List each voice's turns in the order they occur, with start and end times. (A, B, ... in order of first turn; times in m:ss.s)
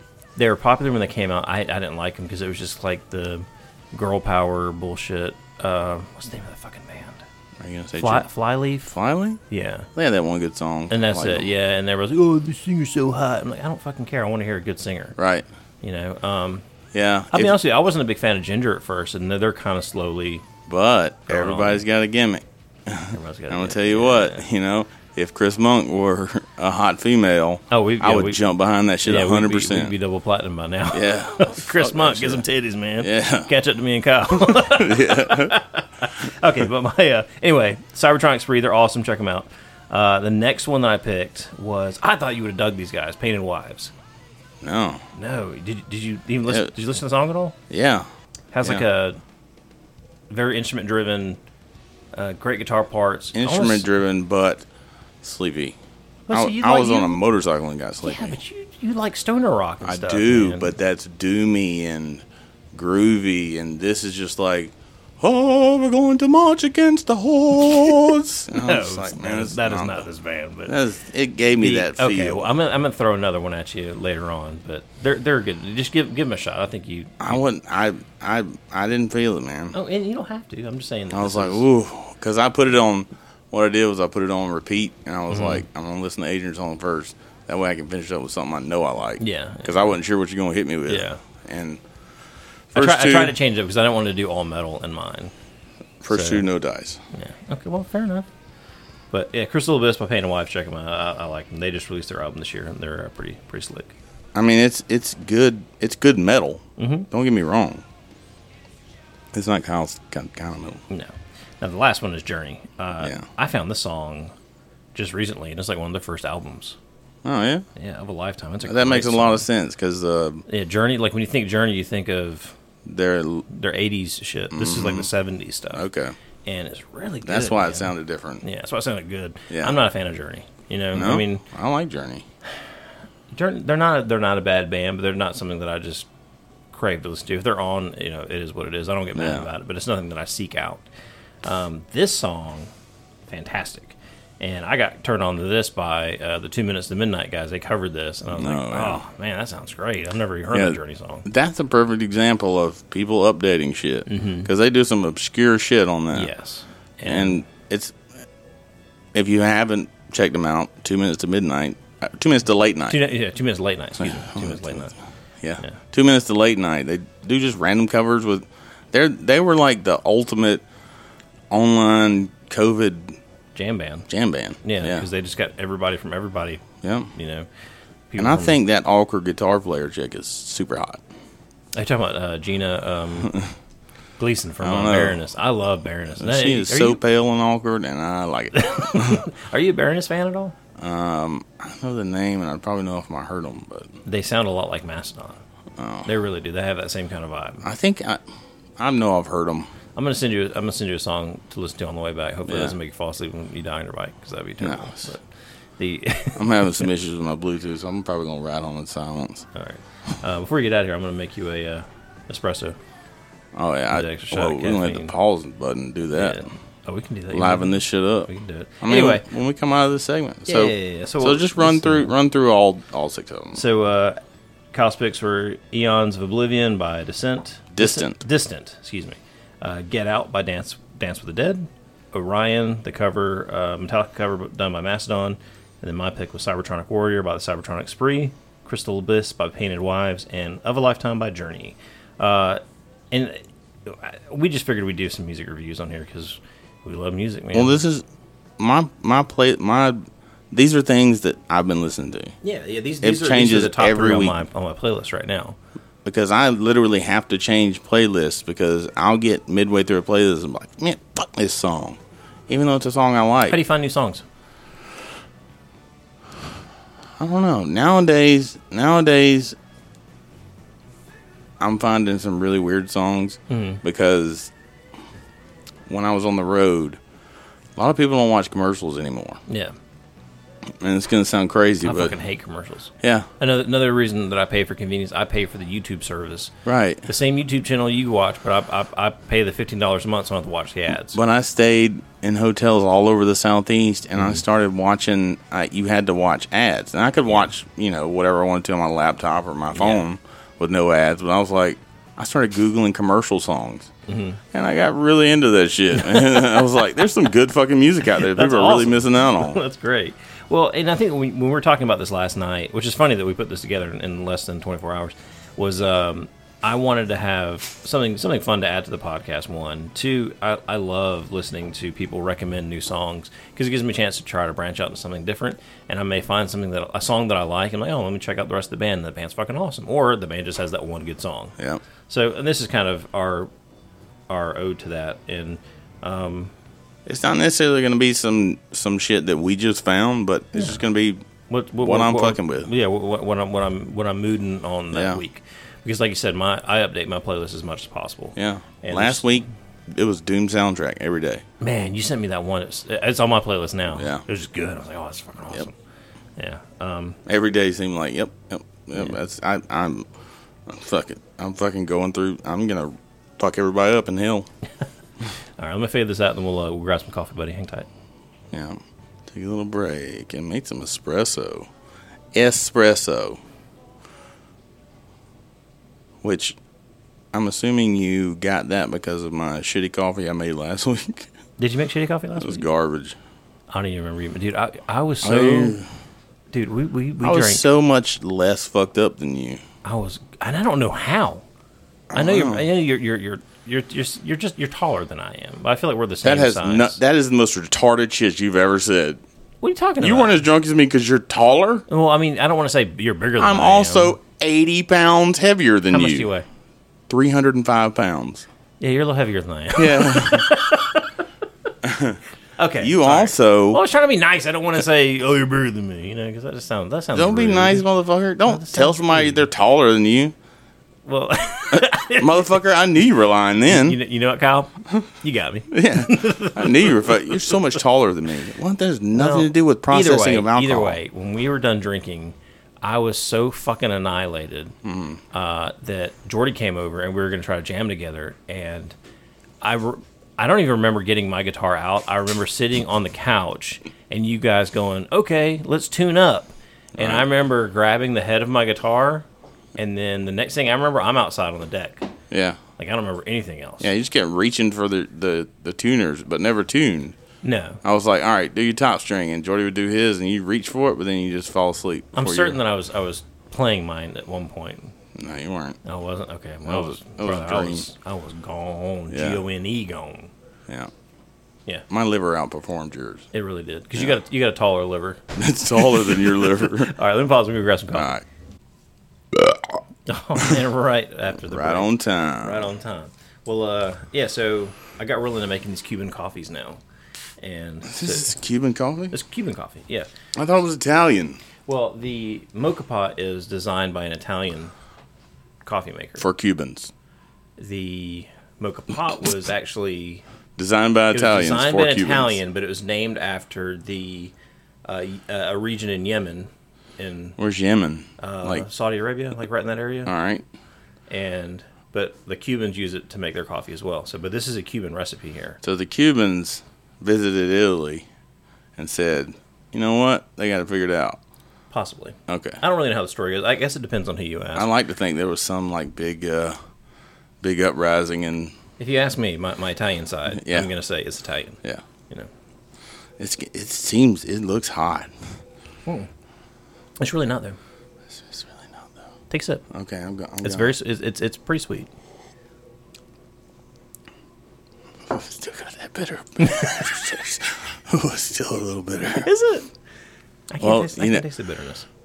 0:00.4-0:07.2 A
0:07.6-0:08.2 B
0:08.0-0:08.9 A
0:08.8-0:09.4 B
0:09.5-0:09.9 A
0:10.0-0:11.5 B
0:10.9-0:15.2 A
0:15.2-0:15.4 B
0:15.8-0:16.6 A
0:16.9-0:17.6 B
0:17.3-0:20.4 A
0:20.7-0:29.9 B
0:21.3-0:21.8 A
0:23.1-0:24.4 A
0:27.7-0:28.4 A
0:29.0-0:43.9 A
0:30.9-0:32.4 B
0:33.0-0:33.5 B
0:34.6-0:35.5 B
0:44.6-0:45.0 B
0:45.1-0:47.6 A
0:47.7-0:48.1 B
0:48.5-0:49.2 A
0:50.3-0:51.4 A
0:52.1-0:53.9 A
0:53.3-0:54.6 B
0:55.2-0:55.8 B
0:56.3-0:57.2 A
0:56.3-0:58.4 B
0:58.0-1:00.7 A
0:59.8-1:10.0 B
1:08.6-1:10.8 A
1:10.7-1:12.4 B
1:11.6-1:17.4 A
1:17.2-1:19.7 B
1:19.7-1:21.6 A
1:21.1-1:31.8 B
1:25.3-1:25.6 A
1:29.2-1:30.0 A
1:30.9-1:31.2 A
1:32.7-1:33.3 B
1:32.7-1:35.3 A
1:36.0-1:37.0 B
1:36.1-1:36.5 A
1:37.1-1:38.2 A
1:39.1-1:43.9 A
1:44.3-1:47.8 B
1:46.8-1:47.1 A
1:49.3-1:50.8 B
1:50.9-1:54.3 A
1:54.9-1:56.8 A
1:57.2-1:57.6 B
1:57.8-1:59.5 A
1:58.6-2:00.4 B
2:00.5-2:02.5 A
2:02.8-2:03.5 B
2:03.5-2:05.8 A
2:04.5-2:05.1 B
2:05.7-2:06.1 B
2:06.4-2:11.4 A
2:07.2-2:08.4 B
2:09.5-2:09.8 B
2:10.9-2:12.2 B
2:13.3-2:16.1 A
2:16.7-2:20.8 A
2:19.2-2:19.4 B
2:21.4-2:22.7 A
2:23.3-2:31.2 A
2:28.3-2:29.0 B
2:30.5-2:36.3 B
2:34.1-2:34.5 A
2:36.1-2:37.4 A
2:37.0-2:37.9 B
2:39.1-2:43.0 B
2:42.9-2:44.9 A
2:44.0-2:44.9 B
2:45.4-2:50.6 B
2:51.5-2:53.2 B
2:53.5-2:54.1 A
2:54.1-2:55.0 B
2:54.6-2:57.5 A
2:56.8-2:57.1 B
2:58.1-2:58.6 A
2:58.2-3:01.0 B
3:01.7-3:03.4 A
3:04.2-3:07.0 A
3:04.6-3:05.2 B
3:06.2-3:09.2 B
3:08.5-3:10.5 A
3:10.8-3:14.0 B
3:14.0-3:15.4 A
3:15.8-3:16.1 B
3:16.0-3:17.6 A
3:17.6-3:18.2 B
3:18.8-3:19.7 B
3:19.9-3:25.2 A
3:22.5-3:22.7 B
3:24.6-3:25.1 B
3:25.8-3:26.9 A
3:26.4-3:29.4 B
3:29.5-3:32.8 A
3:33.5-3:36.4 B
3:33.9-3:35.1 A
3:36.1-3:39.2 A
3:37.3-3:38.3 B
3:38.8-3:43.6 B
3:40.5-3:42.1 A
3:43.5-3:44.2 A
3:44.7-4:07.8 A
3:47.7-3:48.2 B
4:07.5-4:08.0 B
4:08.6-4:12.3 B
4:12.4-4:15.6 A
4:13.0-4:14.4 B
4:16.0-4:23.6 B
4:23.5-4:24.2 A
4:27.2-4:29.6 B
4:31.6-4:34.5 B
4:33.5-4:33.8 A
4:35.9-4:37.0 B
4:37.8-4:39.4 B
4:39.5-4:39.7 A
4:40.8-4:42.1 B
4:41.8-4:46.5 A
4:46.6-4:47.1 B
4:47.0-4:51.2 A
4:51.1-5:03.9 B
4:59.7-5:00.0 A
5:04.1-5:04.4 A
5:04.5-5:09.6 B
5:06.0-5:06.8 A
5:08.1-5:31.5 A
5:32.1-5:33.5 A
5:34.3-5:36.5 A
5:37.0-5:41.2 B
5:41.5-5:49.4 A
5:41.8-5:42.7 B
5:44.9-5:45.2 B
5:48.4-5:51.4 B
5:51.6-5:55.7 A
5:53.9-5:54.2 B
5:56.4-5:57.2 A
5:57.2-6:00.1 B
6:00.7-6:04.5 B
6:05.6-6:07.9 A
6:08.5-6:11.7 B
6:12.3-6:13.4 B
6:16.2-6:16.6 B
6:17.3-6:21.3 B
6:21.6-6:22.6 A
6:22.4-6:23.2 B
6:23.7-6:25.8 A
6:25.2-6:25.9 B
6:26.5-6:27.6 A
6:27.2-6:29.6 B
6:29.8-6:31.4 A
6:32.1-6:32.6 B
6:32.1-6:37.0 A
6:36.2-6:39.2 B
6:39.6-6:40.4 A
6:40.0-6:41.8 B
6:41.9-6:44.2 A
6:43.4-6:46.3 B
6:45.9-6:46.4 A
6:47.1-6:48.4 B
6:48.8-6:51.1 A
6:49.8-6:50.5 B
6:51.8-6:52.2 B
6:52.6-6:57.9 A
6:52.8-6:53.8 B
6:57.1-7:00.3 B
6:58.4-6:59.4 A
7:01.0-7:02.6 A
7:01.7-7:04.0 B
7:03.7-7:07.8 A
7:05.7-7:11.0 B
7:09.1-7:14.7 A
7:14.8-7:15.2 B
7:15.3-7:19.0 A
7:19.6-7:29.2 A
7:27.0-7:27.2 B
7:29.8-7:32.1 A
7:32.3-7:32.6 B
7:32.8-7:33.9 A
7:33.8-7:37.1 B
7:37.4-7:37.8 A
7:37.8-7:42.6 B
7:42.1-7:44.9 A
7:45.1-7:45.8 B
7:45.8-7:50.3 A
7:46.6-7:47.9 B
7:49.1-7:49.4 B
7:51.9-7:53.3 B
7:53.3-7:55.2 A
7:55.3-7:56.9 B
7:55.8-7:58.1 A
7:57.9-7:58.2 B
7:59.3-7:59.8 B
8:00.1-8:06.8 A
8:01.4-8:02.6 B
8:07.4-8:08.3 A
8:07.9-8:09.1 B
8:09.1-8:10.1 A
8:10.4-8:11.4 B
8:11.7-8:14.7 A
8:15.6-8:16.2 A
8:16.2-8:16.9 B
8:17.6-8:20.2 A
8:20.6-8:22.4 B
8:21.1-8:24.3 A
8:24.8-8:27.4 A
8:27.4-8:28.6 B
8:28.2-8:30.1 A
8:30.0-8:30.4 B
8:31.1-8:35.6 A
8:35.6-8:38.0 B
8:38.8-8:41.2 B
8:41.7-8:44.7 A
8:42.3-8:42.6 B
8:44.6-8:46.6 B
8:47.4-8:48.5 B
8:48.8-8:52.3 A
8:50.3-8:50.7 B
8:53.2-8:55.1 B
8:57.0-8:57.6 A
8:58.2-8:58.9 B
8:59.3-8:59.6 A
8:59.7-9:00.7 B
9:00.4-9:01.9 A
9:05.1-9:09.3 B
9:09.1-9:09.7 A
9:10.5-9:11.8 A
9:10.6-9:11.2 B